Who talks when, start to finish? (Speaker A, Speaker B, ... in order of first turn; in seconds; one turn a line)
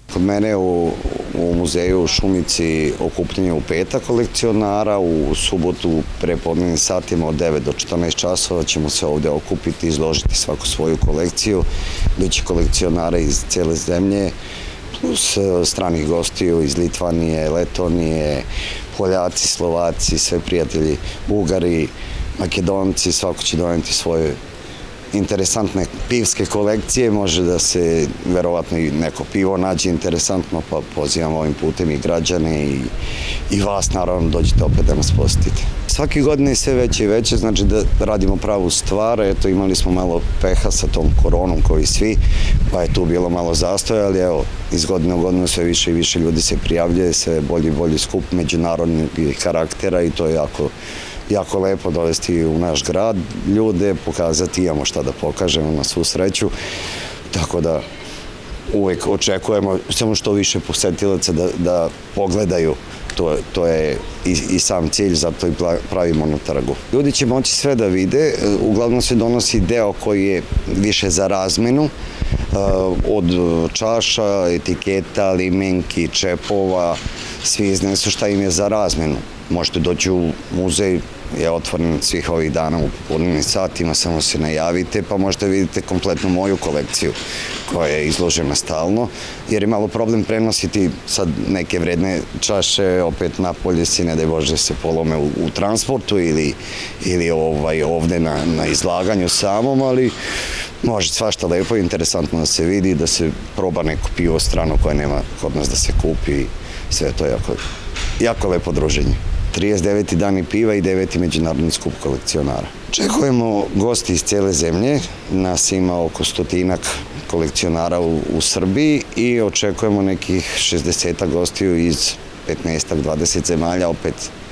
Speaker A: 0.1-11.6
Speaker A: 12.2-14.3
Speaker A: 15.0-24.4
Speaker A: 25.1-32.9
Speaker A: 33.5-42.2
Speaker A: 42.7-50.7
Speaker A: 51.3-56.5
Speaker A: 57.3-57.8
Speaker A: 58.7-71.9
Speaker A: 72.5-87.1
Speaker A: 87.7-100.1
Speaker A: 100.8-107.6
Speaker A: 108.2-124.3